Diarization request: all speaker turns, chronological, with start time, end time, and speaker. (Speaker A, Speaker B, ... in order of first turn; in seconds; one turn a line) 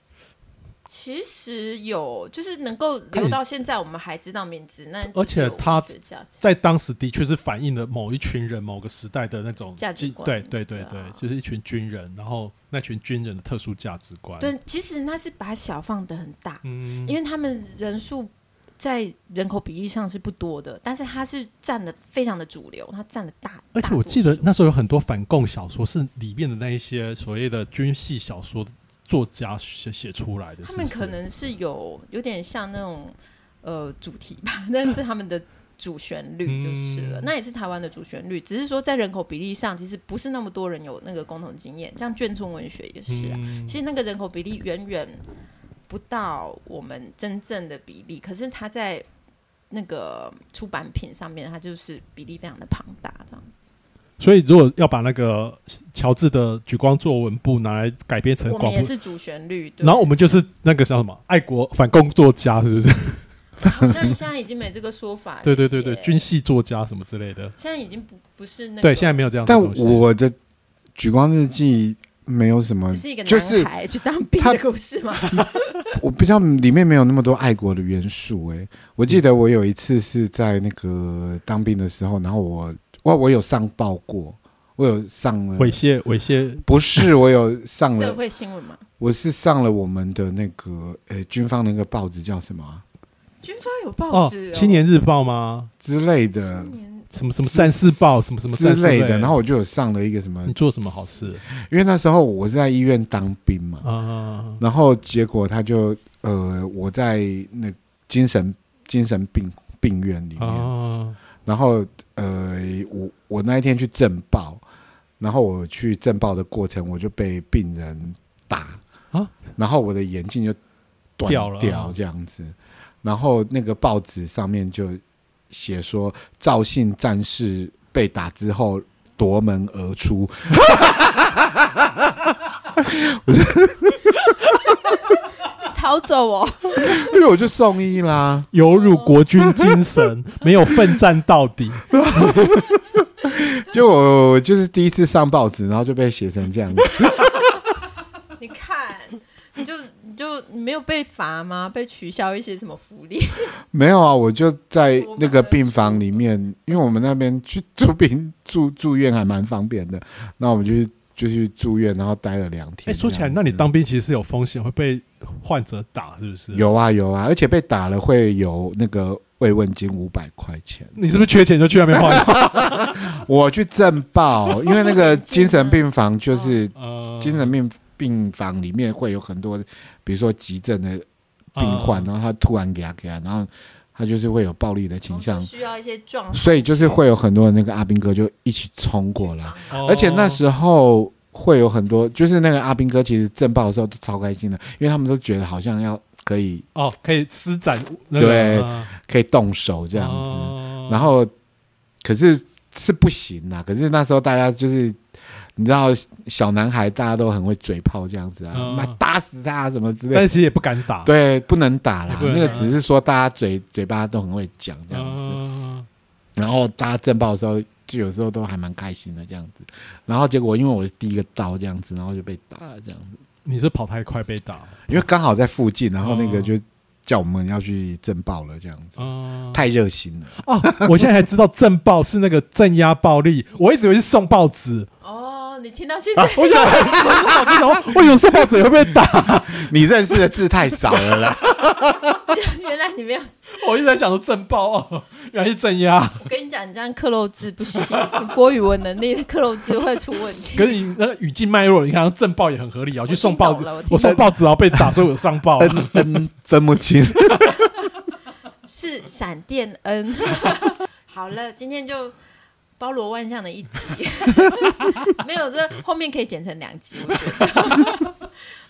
Speaker A: 0.8-6.4
Speaker B: 3.1-3.4
Speaker B: 5.1-14.5
Speaker A: 9.8-11.2
Speaker A: 14.4-24.5
Speaker B: 16.6-17.2
Speaker B: 23.8-31.2
Speaker A: 30.6-45.2
Speaker B: 36.5-37.3
Speaker B: 43.1-43.8
Speaker A: 45.9-49.0
Speaker A: 49.7-53.5
Speaker B: 54.2-58.9
Speaker A: 58.5-60.1
Speaker B: 59.8-63.2
Speaker A: 63.6-66.3
Speaker B: 65.4-67.5
Speaker A: 67.6-69.2
Speaker B: 68.8-70.0
Speaker C: 69.5-70.4
Speaker C: 71.0-73.7
Speaker A: 72.9-75.9
Speaker C: 75.3-85.8
Speaker B: 85.6-87.1
Speaker C: 86.7-88.2
Speaker A: 87.9-88.8
Speaker C: 89.0-92.8
Speaker A: 93.4-94.9
Speaker B: 94.1-95.7
Speaker C: 95.8-96.7
Speaker A: 96.5-97.1
Speaker B: 97.1-99.3
Speaker C: 97.4-100.6
Speaker B: 100.5-101.4
Speaker C: 101.5-103.9
Speaker B: 103.8-104.6
Speaker C: 104.6-110.7
Speaker B: 110.4-111.2
Speaker C: 111.5-114.6
Speaker C: 115.2-118.8
Speaker C: 119.6-120.6
Speaker C: 121.2-132.1
Speaker B: 121.3-122.0
Speaker C: 132.8-134.2
Speaker A: 135.6-137.0
Speaker C: 136.8-138.5
Speaker B: 138.5-141.9
Speaker A: 138.7-139.2
Speaker C: 141.9-147.3
Speaker A: 148.4-153.6
Speaker C: 153.7-163.6
Speaker A: 154.9-156.2
Speaker B: 162.9-166.7
Speaker C: 166.5-171.0
Speaker B: 171.0-173.1
Speaker C: 171.9-181.1
Speaker A: 174.6-176.6
Speaker B: 176.8-177.5
Speaker B: 181.6-182.1
Speaker C: 181.6-185.5
Speaker A: 185.1-187.0
Speaker C: 186.3-196.7
Speaker A: 189.2-189.9
Speaker B: 189.7-190.4
Speaker B: 196.8-198.9
Speaker C: 198.2-201.3
Speaker B: 199.9-201.1
Speaker C: 202.0-205.0
Speaker C: 205.6-210.4
Speaker B: 208.5-209.0
Speaker B: 210.1-211.1
Speaker C: 211.1-215.4
Speaker B: 212.1-212.8
Speaker A: 212.4-212.7
Speaker B: 214.9-215.9
Speaker C: 216.4-223.2
Speaker B: 223.4-224.9
Speaker C: 224.9-231.1
Speaker B: 226.0-226.5
Speaker B: 229.0-229.7
Speaker B: 230.4-234.9
Speaker A: 235.0-237.4
Speaker B: 236.4-239.7
Speaker C: 236.4-242.2
Speaker A: 242.3-243.6
Speaker B: 243.5-246.2
Speaker A: 246.2-250.8
Speaker B: 250.6-256.2
Speaker A: 253.1-254.3
Speaker C: 255.6-257.7
Speaker A: 258.6-262.1
Speaker A: 262.8-268.3